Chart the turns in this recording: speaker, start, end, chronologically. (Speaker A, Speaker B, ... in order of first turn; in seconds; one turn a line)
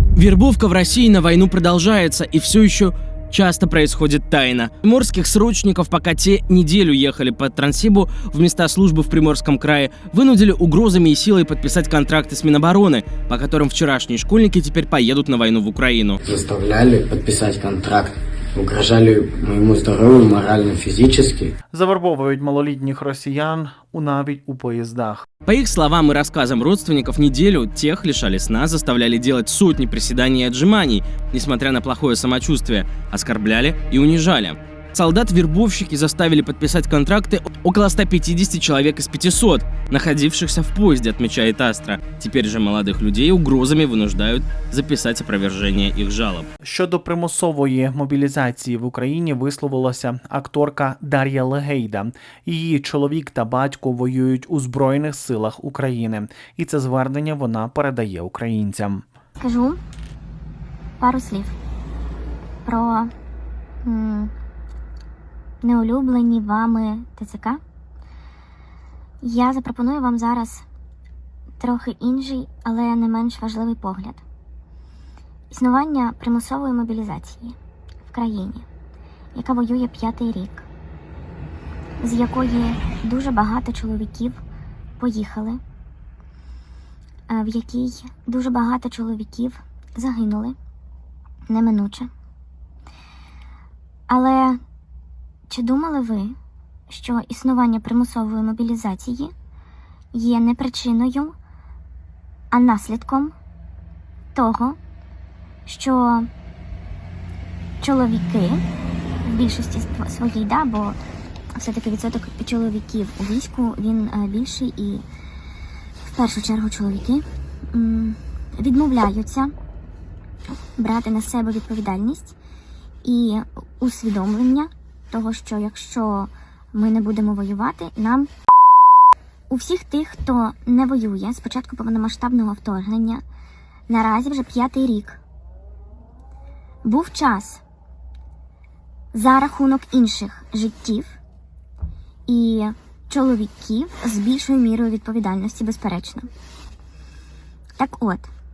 Speaker A: 0.1-16.2
Speaker B: 16.2-21.5
Speaker C: 21.7-25.2
Speaker A: 25.4-46.5
Speaker C: 46.6-59.0
Speaker D: 59.4-59.8
Speaker D: 61.0-61.6
Speaker D: 62.6-63.1
Speaker D: 63.8-64.3
Speaker D: 65.6-67.6
Speaker D: 69.2-70.7
Speaker D: 71.6-74.2
Speaker D: 75.5-77.5
Speaker D: 78.1-78.7
Speaker D: 79.3-80.7
Speaker D: 82.0-84.4
Speaker D: 85.0-85.6
Speaker D: 87.3-90.5
Speaker D: 91.5-92.1
Speaker D: 94.1-94.6
Speaker D: 95.5-96.3
Speaker D: 96.9-99.3
Speaker D: 100.1-101.3
Speaker D: 102.5-103.3
Speaker D: 104.3-104.8
Speaker D: 105.6-106.3
Speaker D: 107.8-108.6
Speaker D: 109.2-111.0
Speaker D: 111.6-115.0
Speaker D: 116.0-119.5
Speaker D: 120.8-122.3
Speaker D: 123.0-128.3
Speaker D: 129.5-133.2
Speaker D: 133.9-135.2
Speaker D: 136.8-137.6
Speaker D: 139.1-141.2
Speaker D: 142.3-146.3
Speaker D: 147.8-148.3